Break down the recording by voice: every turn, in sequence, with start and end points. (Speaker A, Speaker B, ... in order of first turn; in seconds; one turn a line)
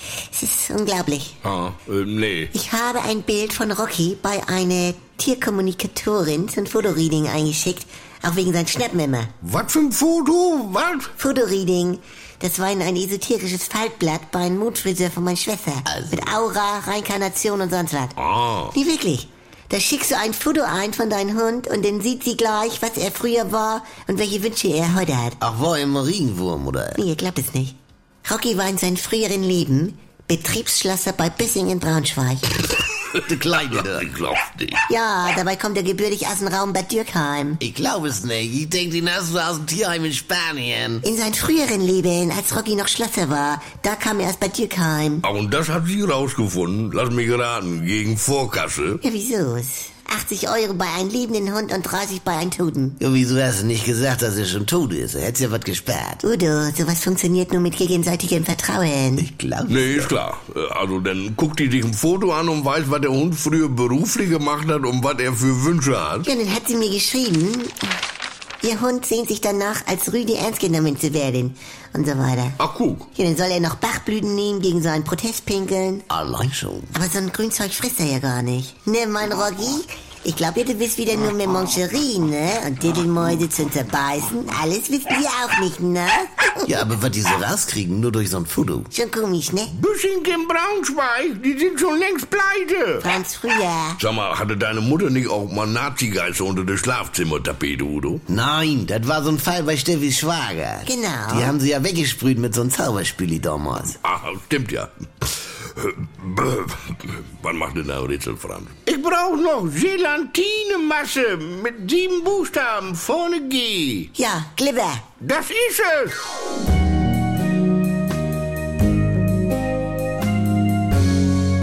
Speaker A: 0.3-1.4
Speaker B: 1.4-2.5
Speaker A: 2.5-9.3
Speaker B: 9.4-11.1
Speaker A: 11.2-18.1
Speaker C: 15.9-16.2
Speaker B: 18.2-18.7
Speaker A: 18.7-25.4
Speaker C: 25.4-27.0
Speaker A: 26.9-32.5
Speaker C: 33.2-34.1
Speaker B: 33.5-34.8
Speaker A: 34.9-37.6
Speaker C: 37.6-41.0
Speaker A: 41.0-45.2
Speaker B: 45.2-49.0
Speaker A: 49.0-53.0
Speaker C: 53.0-56.2
Speaker A: 56.2-59.3
Speaker C: 59.2-60.2
Speaker B: 59.7-66.2
Speaker A: 66.2-68.0
Speaker A: 68.6-72.6
Speaker B: 72.6-73.0
Speaker A: 73.1-76.0
Speaker C: 76.1-76.9
Speaker A: 76.9-86.8
Speaker C: 86.7-88.9
Speaker A: 88.9-89.7
Speaker B: 89.7-93.1
Speaker A: 93.0-94.0
Speaker B: 94.0-98.2
Speaker C: 98.3-104.0
Speaker A: 100.8-101.6
Speaker B: 104.0-104.9
Speaker B: 105.8-114.1
Speaker A: 114.1-115.0
Speaker B: 115.2-116.2